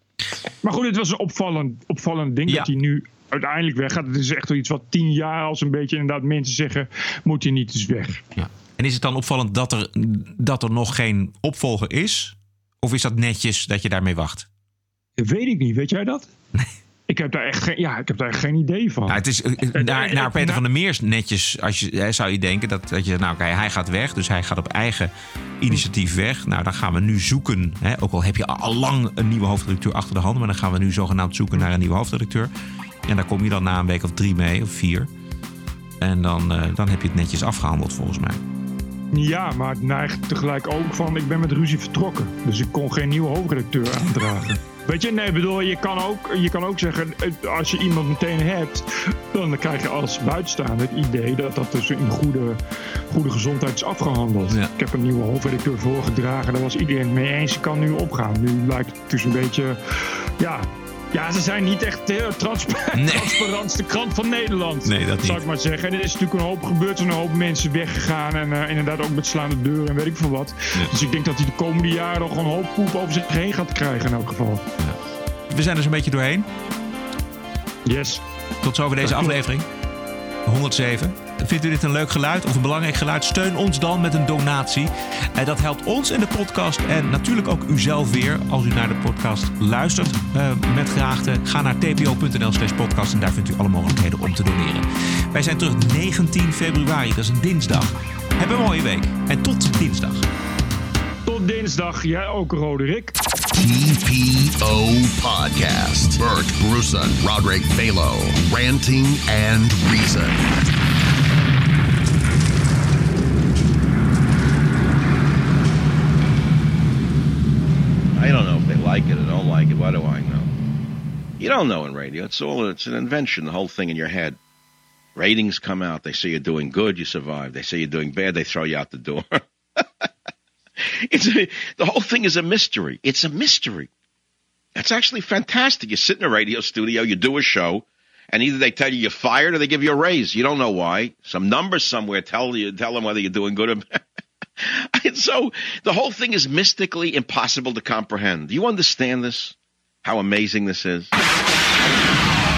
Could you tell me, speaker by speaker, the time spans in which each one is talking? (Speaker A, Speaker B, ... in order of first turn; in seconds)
Speaker A: 0.6-8.2, 15.2-16.3, 17.1-19.2, 19.7-20.6, 39.1-52.6, 53.1-59.8, 60.4-74.6, 77.9-78.2, 79.0-79.4, 101.3-103.2
Speaker B: 8.4-14.5, 19.1-32.5, 33.1-35.1, 36.0-38.4, 63.0-63.3, 64.8-65.4, 75.5-76.5, 78.6-79.7, 80.5-100.2
Speaker C: 103.5-110.5
Speaker D: 118.2-120.5, 121.4-124.4, 125.2-129.4, 131.1-133.9, 134.8-143.9, 144.6-151.1